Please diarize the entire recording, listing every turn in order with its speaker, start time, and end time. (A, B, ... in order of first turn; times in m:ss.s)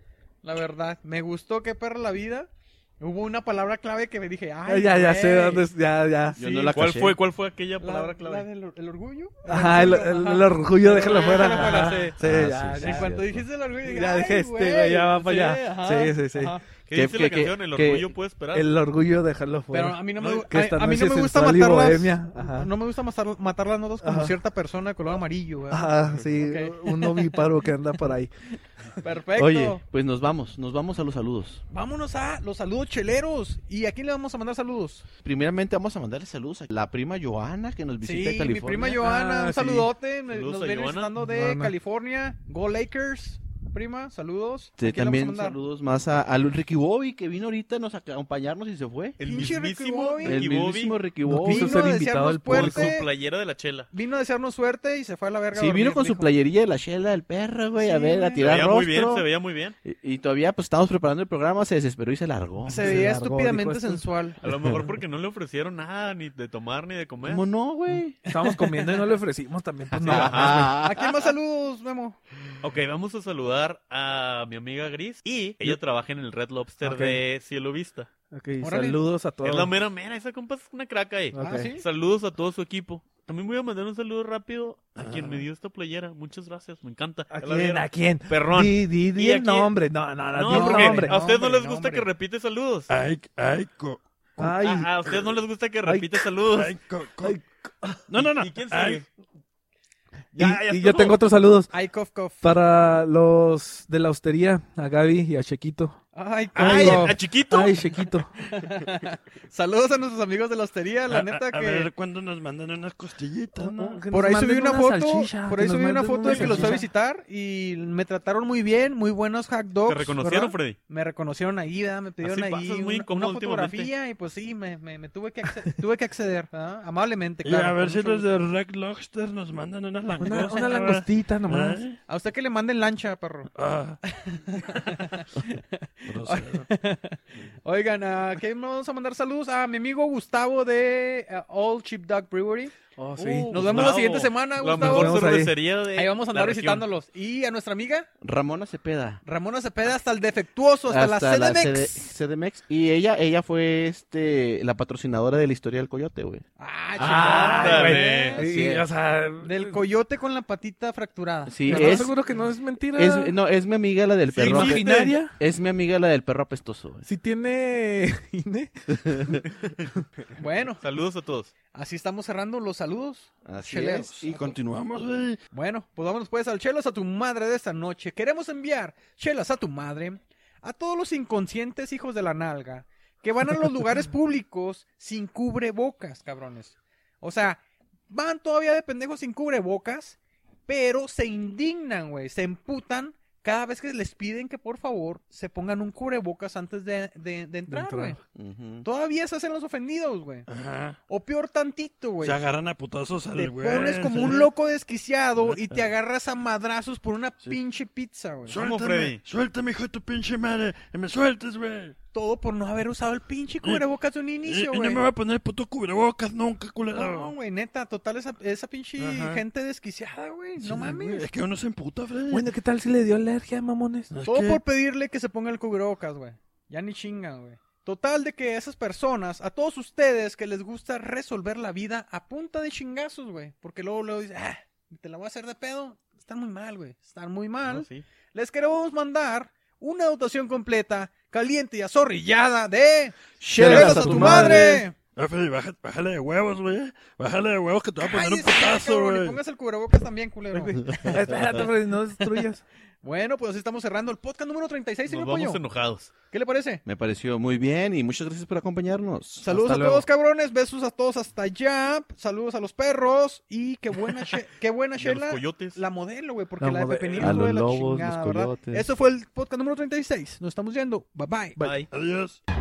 0:00.4-0:05.7 A
0:04.6-0:06.4 B
0:06.4-0:07.2 C
0:06.4-0:08.5 D
0:07.8-0:16.6 A
0:09.4-0:13.1 B
0:12.2-0:13.5 C
0:13.8-0:16.6 B
0:16.9-0:18.7 D
0:16.9-0:18.1 C
0:18.5-0:22.7 B
0:19.7-0:27.7 A
0:20.2-0:20.4 D
0:24.0-0:24.4 B
0:25.7-0:28.3 B
0:29.0-0:29.8 A
0:29.4-0:31.6 C
0:31.7-0:35.0 A
0:35.2-0:39.0 C
0:38.0-0:45.6 A
0:39.0-0:39.9 B
0:40.3-0:41.1 D
0:41.2-0:41.7 B
0:44.8-0:49.2 C
0:49.2-0:51.0 D
0:49.2-0:50.5 A
0:50.2-0:51.9 C
0:51.2-0:53.0 B
0:51.4-0:53.1 A
0:52.4-0:53.9 D
0:53.9-0:56.3 A
0:55.5-0:59.2 C
0:57.7-0:58.5 A
0:58.4-0:59.8 D
0:59.8-1:03.1 C
1:02.6-1:04.4 A
1:02.7-1:04.0 B
1:04.4-1:07.4 D
1:07.2-1:08.2 C
1:08.2-1:09.2 A
1:08.3-1:10.7 B
1:10.0-1:11.1 C
1:10.0-1:10.8 D
1:10.8-1:12.2 A
1:12.6-1:18.1 D
1:16.8-1:17.2 B
1:18.3-1:19.7 B
1:18.6-1:19.0 A
1:19.4-1:29.7 D
1:21.3-1:21.7 B
1:21.3-1:21.8 A
1:25.0-1:25.4 E
1:27.3-1:31.2 B
1:30.3-1:32.9 D
1:30.4-1:32.1 A
1:32.9-1:34.0 E
1:34.4-1:35.2 B
1:34.4-1:36.7 D
1:35.8-1:36.2 B
1:36.5-1:37.4 E
1:37.2-1:38.0 B
1:38.1-1:39.0 E
1:38.2-1:39.1 D
1:40.3-1:41.2 D
1:40.3-1:41.7 B
1:41.7-1:42.5 A
1:42.4-1:46.0 B
1:46.1-1:47.3 A
1:46.5-1:47.8 D
1:46.6-1:48.3 B
1:48.4-1:51.9 A
1:51.1-1:54.0 E
1:53.6-1:56.9 B
1:54.1-2:08.3 A
1:56.3-1:56.8 D
1:59.8-2:00.8 D
2:02.2-2:03.9 D
2:07.4-2:12.0 E
2:10.2-2:11.8 B
2:12.0-2:13.5 A
2:13.5-2:14.0 E
2:14.2-2:22.8 A
2:16.0-2:16.7 E
2:22.9-2:24.0 B
2:23.2-2:26.9 D
2:23.5-2:28.1 A
2:24.7-2:25.5 B
2:28.2-2:29.2 C
2:29.2-2:32.1 A
2:30.9-2:36.4 C
2:36.6-2:38.5 A
2:36.9-2:38.4 D
2:37.0-2:39.8 B
2:37.0-2:38.9 C
2:39.4-2:42.1 A
2:41.5-2:42.2 C
2:41.6-2:43.3 B
2:42.9-2:47.0 C
2:44.3-2:44.9 D
2:44.4-2:45.4 B
2:47.0-2:49.4 B
2:50.4-2:50.8 A
2:50.8-2:51.5 D
2:51.7-2:54.5 A
2:53.4-2:54.5 C
2:54.1-2:55.4 E
2:55.5-3:18.2 A
3:17.7-3:18.2 B
3:18.3-3:18.9 C
3:18.8-3:20.5 A
3:20.5-3:21.0 E
3:21.1-3:22.4 A
3:22.2-3:24.5 E
3:23.3-3:28.6 A
3:25.4-3:25.8 E
3:28.4-3:32.0 E
3:28.5-3:29.2 D
3:32.1-3:35.0 A
3:34.4-3:37.3 E
3:36.9-3:41.2 A
3:39.0-3:39.4 E
3:40.6-3:42.5 E
3:42.3-3:44.1 B
3:44.1-3:44.6 E
3:44.2-4:04.9 A
3:57.6-3:58.0 D
4:03.4-4:04.8 C
4:03.6-4:04.8 B
4:05.2-4:09.4 E
4:08.0-4:10.8 A
4:10.5-4:12.6 B
4:13.0-4:15.6 A
4:15.0-4:16.1 D
4:16.3-4:16.8 A
4:16.8-4:19.5 C
4:19.4-4:31.6 A
4:19.5-4:20.0 B
4:25.0-4:25.8 D
4:26.6-4:27.3 B
4:27.1-4:27.4 D
4:27.2-4:28.9 C
4:31.6-4:31.9 D
4:31.9-4:32.4 E